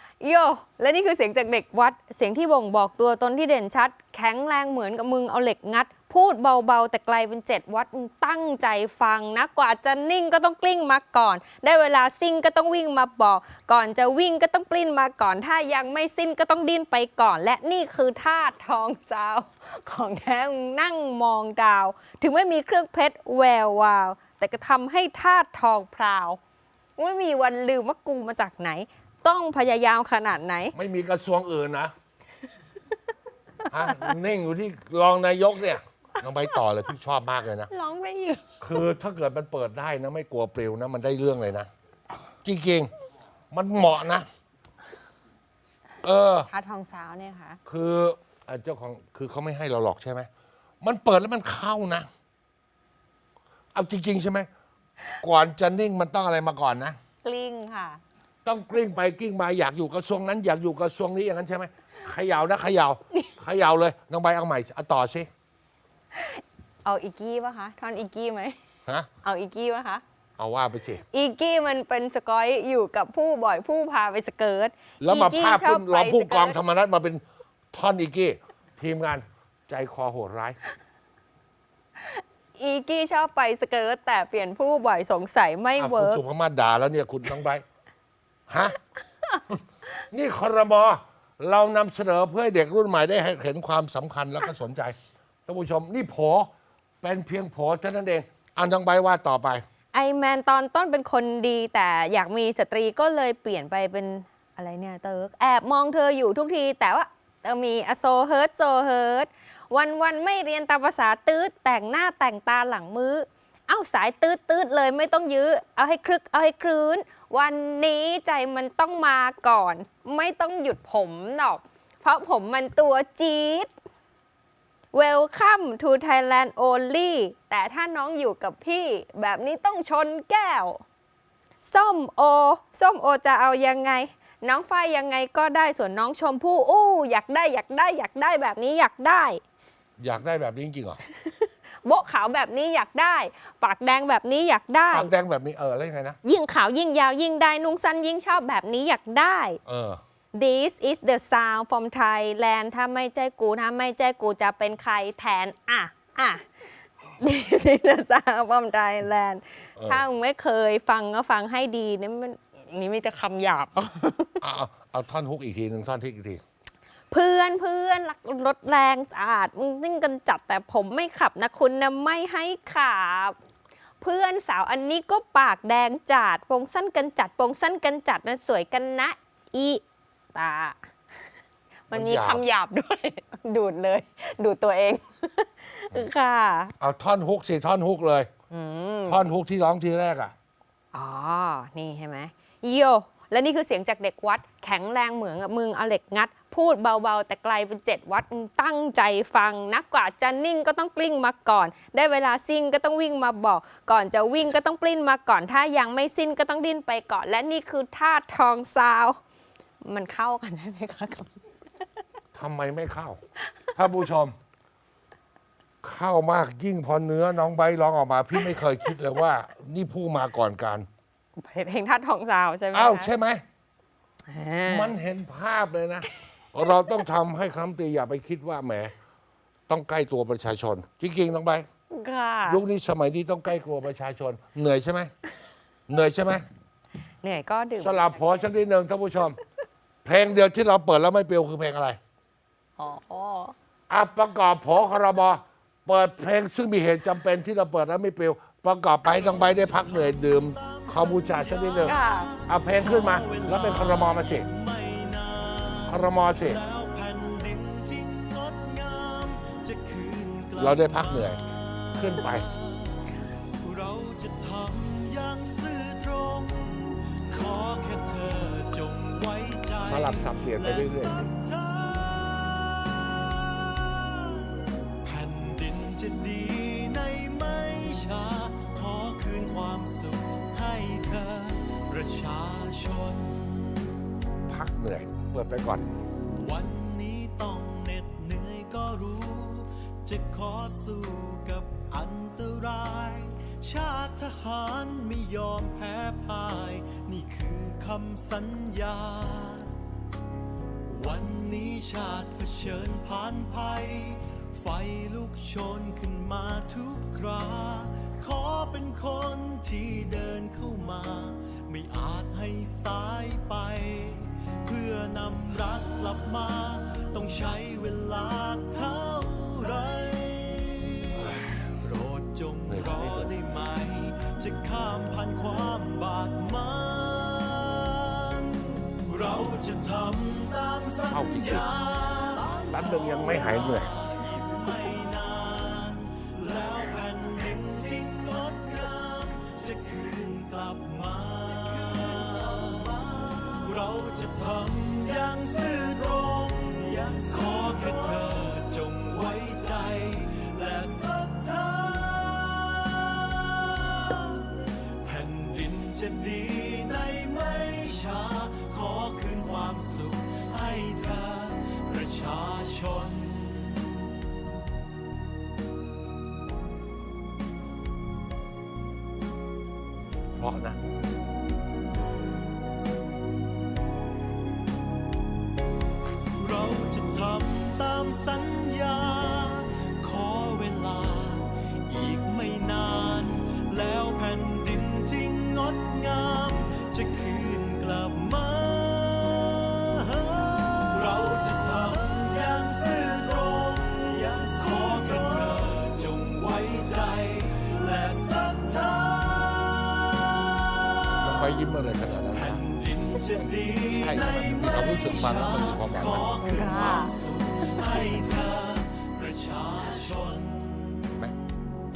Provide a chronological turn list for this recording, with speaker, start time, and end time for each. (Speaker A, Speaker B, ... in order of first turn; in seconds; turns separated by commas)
Speaker A: 0.2-26.4, Speaker A: 27.0-30.7, Speaker B: 30.7-31.9, Speaker B: 33.7-37.7, Speaker A: 37.7-38.8, Speaker B: 38.6-41.7, Speaker B: 42.4-42.9, Speaker B: 43.5-44.3, Speaker B: 46.0-46.5, Speaker A: 46.5-47.6, Speaker B: 47.6-50.3, Speaker B: 50.8-52.1, Speaker B: 53.7-54.5, Speaker B: 55.2-57.0, Speaker A: 57.2-58.0, Speaker B: 58.4-65.3, Speaker A: 66.1-68.6, Speaker A: 69.2-70.0, Speaker B: 70.4-71.0, Speaker A: 71.1-76.6, Speaker B: 75.0-80.6, Speaker A: 82.0-86.2, Speaker B: 85.8-87.6, Speaker B: 88.5-88.8, Speaker B: 90.0-96.5, Speaker B: 97.0-99.6, Speaker A: 99.9-123.7, Speaker A: 124.9-130.8, Speaker A: 131.6-139.4, Speaker B: 140.0-141.0, Speaker A: 141.1-145.1, Speaker B: 144.9-146.2, Speaker A: 146.2-149.6, Speaker B: 149.7-150.0, Speaker A: 150.3-156.4, Speaker A: 157.2-164.4, Speaker B: 159.8-160.0, Speaker B: 164.4-166.4, Speaker A: 167.1-173.3, Speaker A: 174.0-179.8, Speaker A: 180.3-180.8, Speaker A: 181.9-186.7, Speaker B: 181.9-182.4, Speaker B: 186.8-188.3, Speaker A: 188.5-189.2, Speaker B: 189.1-190.3, Speaker A: 190.9-209.2, Speaker A: 209.8-211.3, Speaker B: 212.3-213.2, Speaker B: 213.7-214.3, Speaker B: 215.8-220.9, Speaker A: 221.4-223.1, Speaker B: 222.7-223.4, Speaker A: 224.3-225.0, Speaker B: 224.7-228.9, Speaker B: 229.7-231.7, Speaker A: 231.9-232.6, Speaker B: 232.4-235.1, Speaker B: 235.9-236.4, Speaker A: 237.2-238.2, Speaker B: 237.8-239.4, Speaker B: 240.0-242.0, Speaker A: 242.8-243.5, Speaker B: 243.9-254.5, Speaker C: 249.3-283.9, Speaker A: 251.8-252.3, Speaker B: 255.8-256.6, Speaker B: 260.5-261.4, Speaker B: 261.9-262.5, Speaker B: 269.8-271.2, Speaker B: 284.5-285.9, Speaker C: 286.3-299.8, Speaker C: 300.9-363.9, Speaker B: 321.2-321.7, Speaker B: 322.7-323.4, Speaker B: 331.1-331.7, Speaker B: 332.7-334.0, Speaker B: 370.4-370.8, Speaker C: 376.4-401.5, Speaker B: 401.2-402.6, Speaker C: 402.3-411.2, Speaker B: 403.4-406.3, Speaker A: 406.4-407.1, Speaker A: 407.7-408.2